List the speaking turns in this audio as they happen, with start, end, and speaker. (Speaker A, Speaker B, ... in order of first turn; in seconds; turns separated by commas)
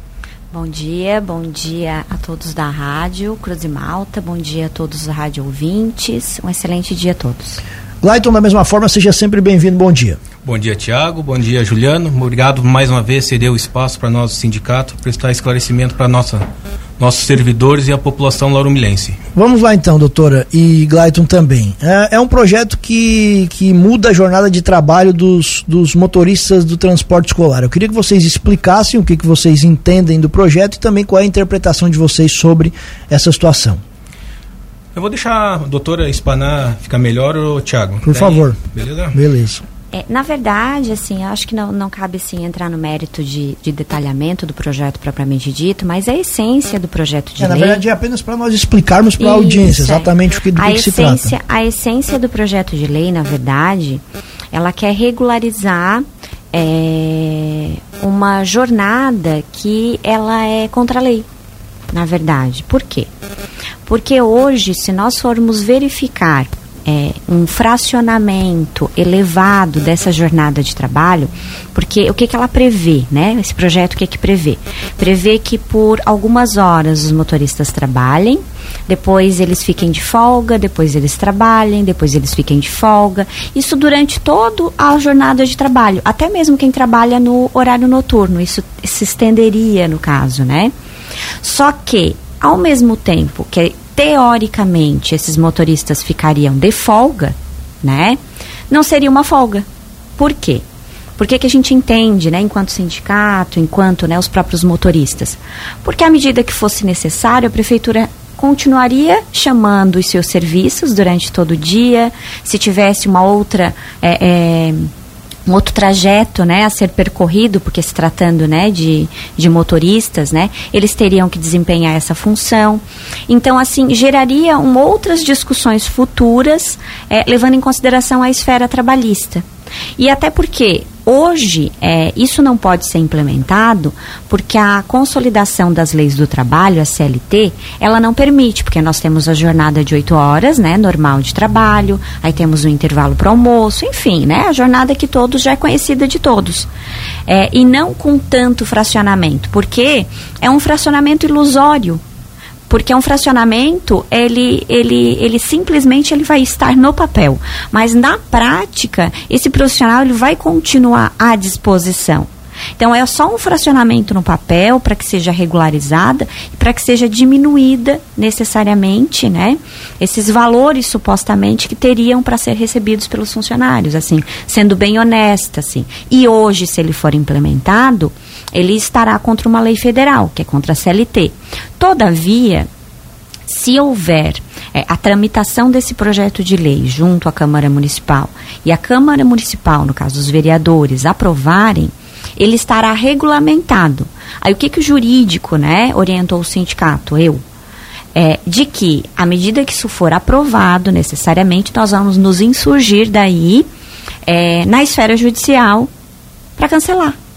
Speaker A: 0.5-7.6, Speaker B: 8.0-10.2, Speaker C: 10.4-16.4, Speaker C: 17.0-19.2, Speaker B: 19.3-33.8, Speaker C: 34.9-39.2, Speaker B: 38.0-38.6, Speaker B: 39.1-39.6, Speaker A: 39.9-47.8, Speaker B: 47.4-51.3, Speaker A: 49.2-61.2, Speaker A: 61.9-63.1, Speaker A: 63.9-90.7, Speaker A: 91.4-98.2, Speaker A: 98.7-99.7, Speaker A: 100.2-100.6, Speaker A: 101.2-114.9, Speaker A: 115.5-129.4, Speaker A: 130.0-146.7, Speaker A: 147.3-152.0, Speaker A: 152.7-182.7, Speaker A: 183.5-197.4, Speaker A: 198.1-203.7, Speaker A: 204.2-205.9, Speaker A: 206.6-207.2